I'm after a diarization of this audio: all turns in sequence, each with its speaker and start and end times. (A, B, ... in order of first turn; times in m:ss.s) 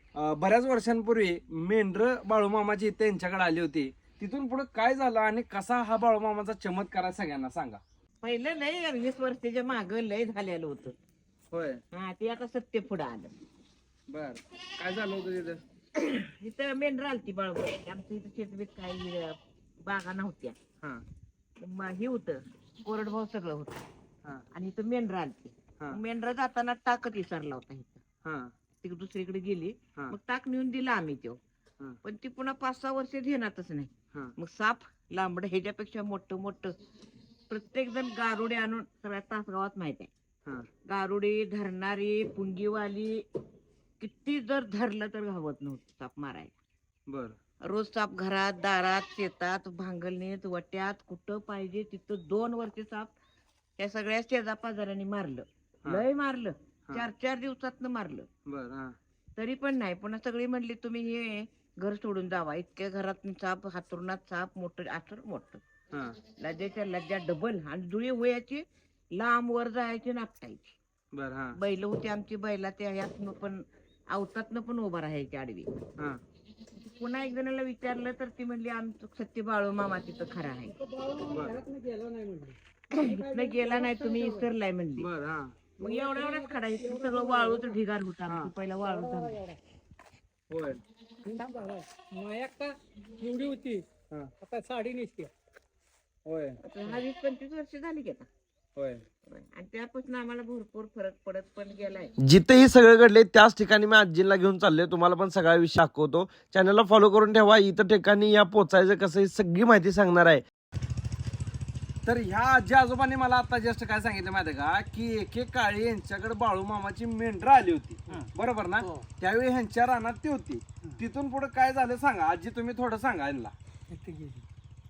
0:00.1-0:07.8 A
0:08.2-0:10.9 B
0:11.5-0:11.8 A
0:11.9-0:13.3 B
0:14.1-0:15.6 A
0:15.9-0:20.6 B
0:21.6-0:23.8 B
0:24.5-0:28.0 B
0:28.2-0:28.5 A
0:28.8-0:31.4 B
0:32.0-0:36.7 B
0:37.5-0:40.1 B
0:40.8-0:43.2 B
0:44.0-0:46.5 B
0:47.1-0:47.4 A
0:47.6-0:53.1 B
0:53.8-0:58.3 B
0:58.4-0:58.9 A
0:59.4-1:05.6 B
1:05.9-1:06.2 A
1:06.4-1:10.8 B
1:11.1-1:11.6 A
1:11.6-1:15.7 B
1:16.8-1:20.7 B
1:20.7-1:24.5 C
1:22.9-1:25.1 B
1:25.0-1:25.5 A
1:25.8-1:27.8 C
1:25.8-1:29.4 B
1:28.8-1:29.6 C
1:30.5-1:30.8 A
1:31.2-1:33.8 C
1:34.4-1:35.3 C
1:36.2-1:36.6 A
1:36.6-1:38.3 B
1:38.8-1:39.0 A
1:39.3-1:42.1 B
1:42.2-1:50.4 A
1:52.0-2:03.5 A
2:03.9-2:04.4 C